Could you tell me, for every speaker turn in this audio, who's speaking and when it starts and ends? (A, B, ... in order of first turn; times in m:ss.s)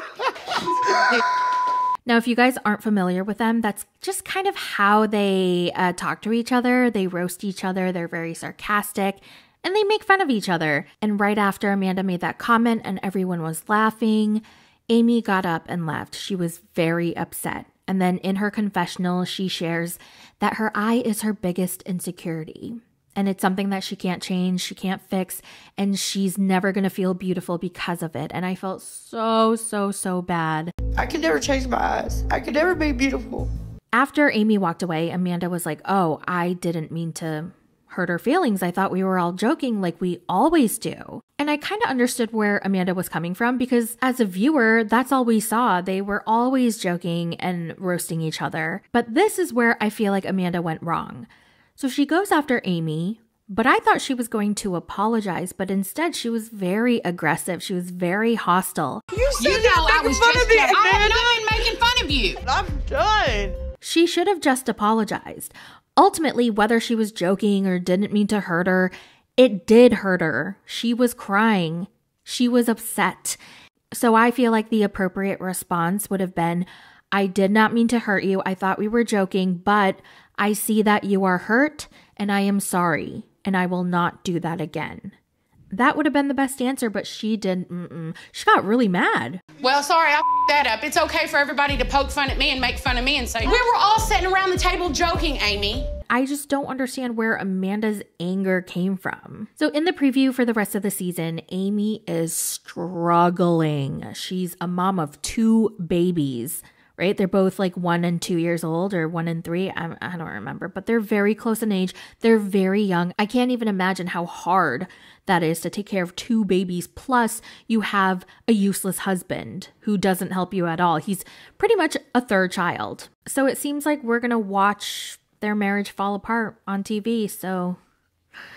0:02.0-0:30.7 A
0:31.1-0:33.3 B
0:33.9-0:59.0 A
0:59.4-1:02.4 C
1:02.5-1:03.6 B
1:03.8-1:13.4 A
1:13.9-1:25.1 A
1:25.7-1:29.4 A
1:29.6-1:35.9 C
1:36.1-2:07.8 A